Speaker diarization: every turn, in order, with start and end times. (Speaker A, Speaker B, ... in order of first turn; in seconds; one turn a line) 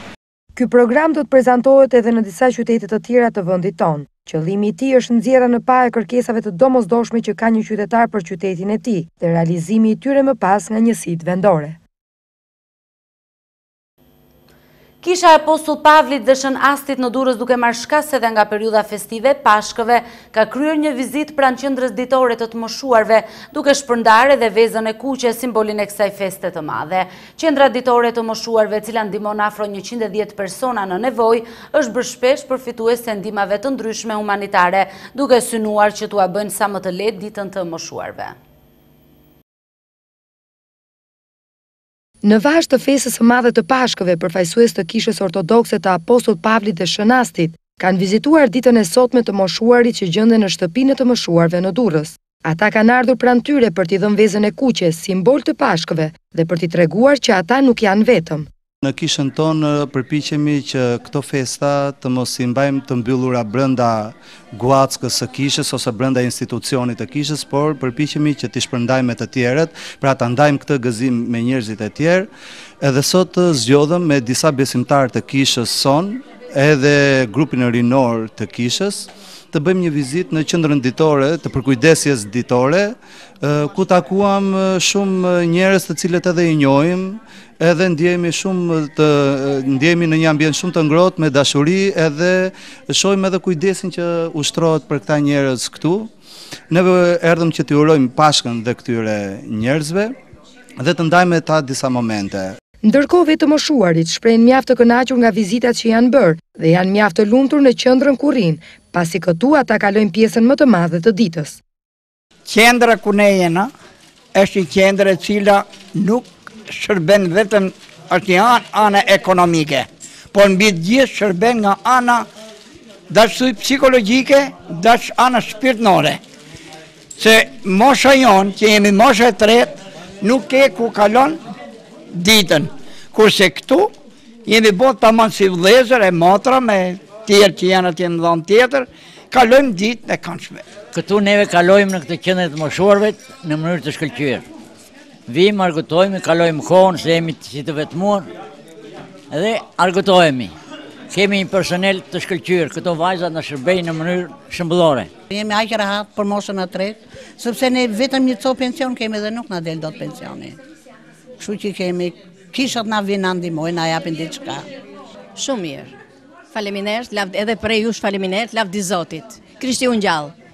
Speaker A: 0.6-11.8
Speaker B: 15.0-38.4
Speaker A: 42.2-58.5
Speaker C: 58.8-96.1
Speaker C: 96.7-100.2
Speaker C: 100.8-102.5
Speaker A: 102.8-111.6
Speaker D: 112.5-113.7
Speaker D: 114.3-122.3
Speaker D: 123.1-126.2
Speaker D: 127.2-131.4
Speaker D: 132.1-133.9
Speaker D: 134.4-140.6
Speaker E: 140.9-144.4
Speaker E: 145.3-148.3
Speaker E: 149.3-150.5
Speaker E: 151.1-155.1
Speaker F: 155.3-160.6
Speaker F: 161.4-164.7
Speaker G: 165.3-165.9
Speaker G: 166.5-170.3